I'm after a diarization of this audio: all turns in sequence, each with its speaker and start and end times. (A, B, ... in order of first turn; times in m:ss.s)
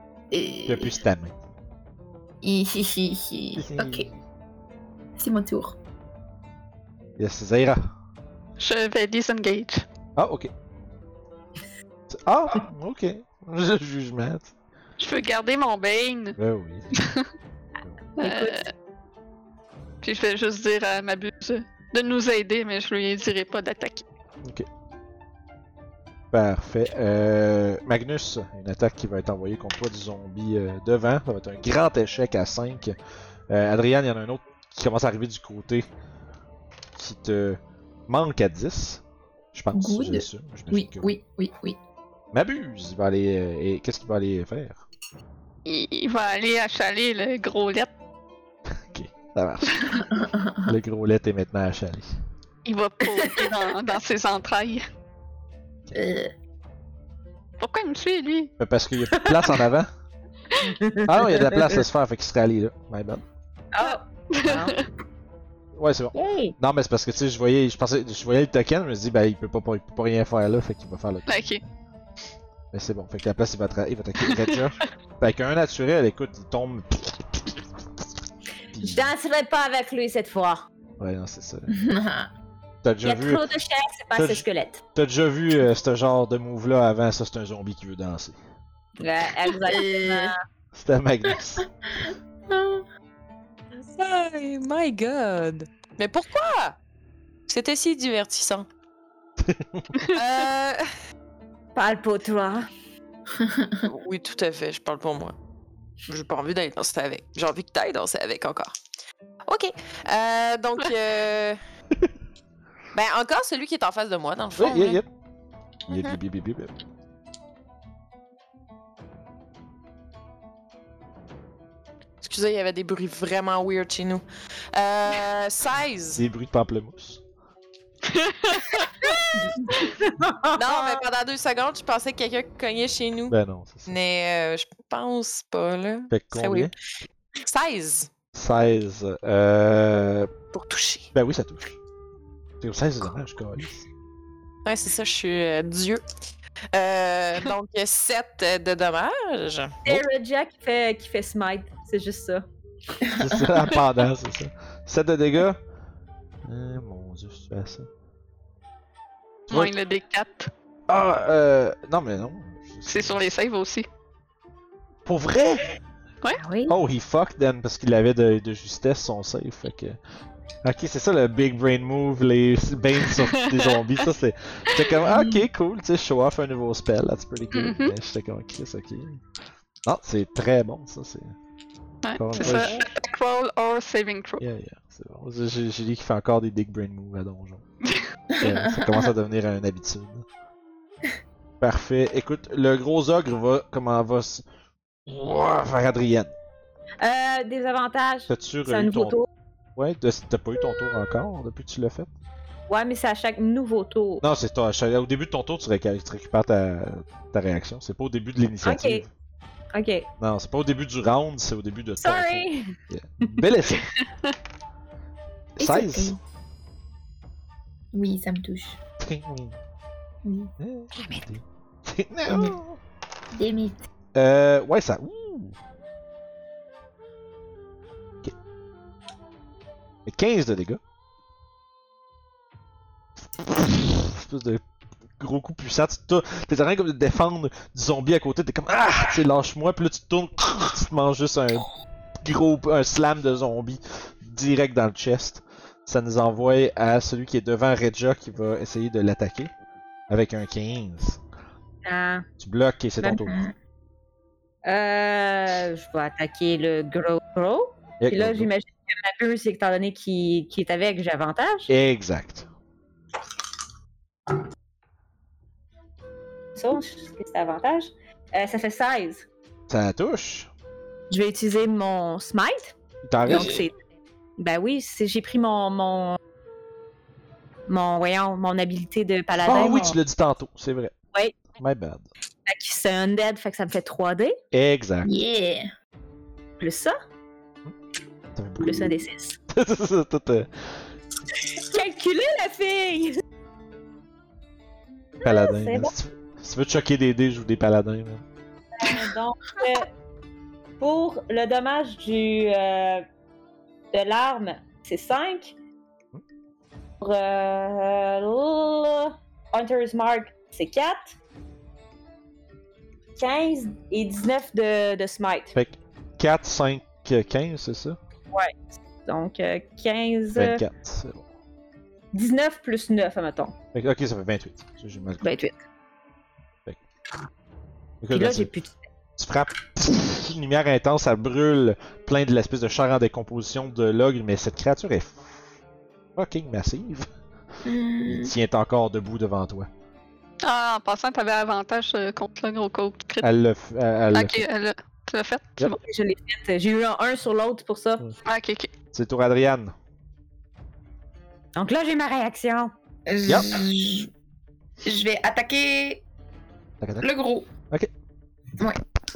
0:00.3-0:01.0 A
0:00.6-0:01.4 B
0:02.4-0:04.1 A
0:03.5-0:04.2 B
0:05.2-0:05.8 A
0:07.2-0:07.9 B
0:08.6-0:09.8 C
0:10.2-0:10.5 B
0:12.1-0:14.6 B
0:15.0-0:16.4 C
0:16.4-0:16.9 B
0:17.0-0:17.2 C
0:18.2-0:18.7 C
0:18.2-0:18.6 D
0:20.0-0:24.0 C
0:26.3-0:33.0 B
0:33.5-0:35.9 B
0:37.0-0:41.2 B
0:39.7-0:41.8 A
0:42.3-0:44.8 B
0:45.7-0:47.9 C
0:48.7-0:50.1 B
0:49.9-0:50.7 A
0:50.6-0:52.1 B
0:52.6-0:54.8 C
0:53.2-0:53.5 A
0:56.0-0:56.3 A
0:57.6-0:58.5 C
0:58.6-0:59.9 B
1:00.6-1:01.8 D
1:01.0-1:03.2 B
1:03.7-1:04.8 D
1:03.8-1:04.9 C
1:05.8-1:11.7 B
1:06.1-1:06.6 D
1:11.3-1:11.6 C
1:12.7-1:18.0 B
1:14.2-1:14.6 C
1:18.7-1:19.1 B
1:18.8-1:20.6 D
1:21.0-1:21.7 B
1:21.7-1:22.3 A
1:22.8-1:23.5 B
1:23.0-1:24.8 D
1:24.1-1:28.4 B
1:29.0-1:30.3 D
1:29.6-1:30.4 A
1:30.7-1:31.7 B
1:31.9-1:32.9 A
1:33.7-1:36.8 E
1:37.5-1:38.7 E
1:39.4-1:39.9 B
1:40.1-1:40.9 E
1:41.8-1:42.7 D
1:43.4-1:43.8 A
1:43.8-1:45.4 E
1:46.1-1:48.8 E
1:49.5-1:51.6 E
1:52.9-1:55.0 E
1:54.6-1:55.1 B
1:55.9-1:56.7 B
1:55.9-1:56.2 E
2:02.2-2:06.2 E
2:06.2-2:07.2 B
2:08.1-2:08.9 C
2:09.4-2:11.0 D
2:10.5-2:16.7 E
2:13.3-2:13.9 B
2:16.1-2:16.7 B
2:17.4-2:18.1 E
2:18.3-2:20.3 B
2:20.5-2:21.1 E
2:21.1-2:21.8 B
2:22.6-2:23.9 B
2:24.6-2:26.0 E
2:26.7-2:29.8 E
2:29.8-2:32.5 D
2:33.0-2:33.5 A
2:33.1-2:35.6 B
2:36.4-2:37.9 B
2:39.5-2:39.7 B
2:39.5-2:40.5 C
2:40.9-2:43.3 B
2:42.9-2:43.9 C
2:45.1-2:45.8 B
2:46.4-2:46.8 D
2:46.7-2:50.0 B
2:50.6-2:59.2 B
2:53.2-2:53.7 C
2:55.1-2:55.4 A
2:57.5-2:58.0 C
2:59.9-3:01.4 B
3:02.0-3:04.4 C
3:02.2-3:02.8 B
3:04.4-3:07.6 B
3:08.4-3:10.3 B
3:08.4-3:09.1 A
3:11.6-3:14.4 B
3:15.1-3:16.3 B
3:17.0-3:19.3 D
3:18.3-3:19.2 B
3:19.8-3:22.1 B
3:22.7-3:24.2 D
3:24.2-3:29.1 B
3:28.6-3:29.0 D
3:29.7-3:30.1 D
3:30.2-3:33.9 B
3:32.0-3:32.8 D
3:35.6-3:36.2 B
3:35.6-3:36.2 A
3:37.9-3:38.8 A
3:39.0-3:39.6 B
3:40.2-3:40.5 A
3:40.6-3:42.8 B
3:42.3-3:42.6 A
3:43.3-3:43.8 A
3:44.2-3:45.6 B
3:50.1-3:50.8 B
3:53.3-3:54.6 B
3:55.2-4:01.7 B
4:02.2-4:09.5 B
4:10.1-4:11.2 B
4:11.8-4:12.3 D
4:12.4-4:13.5 B
4:13.2-4:13.5 A
4:14.6-4:21.7 D
4:18.0-4:18.5 B
4:21.7-4:22.5 B
4:26.6-4:29.3 D
4:29.7-4:30.5 B
4:31.1-4:32.8 D
4:33.0-4:33.7 B
4:33.3-4:33.7 A
4:33.3-4:33.7 D
4:34.4-4:36.2 D
4:37.7-4:40.0 D
4:39.4-4:41.0 B
4:39.5-4:40.0 A
4:41.6-4:42.1 B
4:42.5-4:44.4 D
4:44.5-4:45.1 B
4:45.0-4:45.7 A
4:46.6-4:47.0 D
4:48.4-4:50.5 B
4:48.6-4:49.4 D
4:51.5-4:53.2 D
4:55.2-4:58.2 B
4:55.2-4:55.9 D
4:58.8-4:59.9 D
5:00.8-5:03.1 D
5:03.9-5:05.6 D
5:07.0-5:11.2 D
5:13.2-5:15.6 D
5:15.6-5:18.0 B
5:18.3-5:20.6 D
5:20.4-5:21.3 B
5:22.1-5:23.6 D
5:23.7-5:25.3 B
5:25.2-5:25.6 D
5:28.0-5:28.5 B
5:28.1-5:28.8 D
5:29.2-5:35.5 B
5:36.2-5:37.1 B
5:37.6-5:38.3 A
5:38.1-5:39.7 B
5:40.4-5:43.3 C
5:43.2-5:44.4 B
5:44.1-5:45.8 C
5:45.8-5:48.0 D
5:48.2-5:48.7 C
5:48.9-5:49.7 B
5:51.6-5:52.7 D
5:53.1-5:54.1 A
5:53.3-5:53.6 B
5:54.8-5:56.0 A
5:56.8-5:57.1 B
5:57.0-5:57.5 A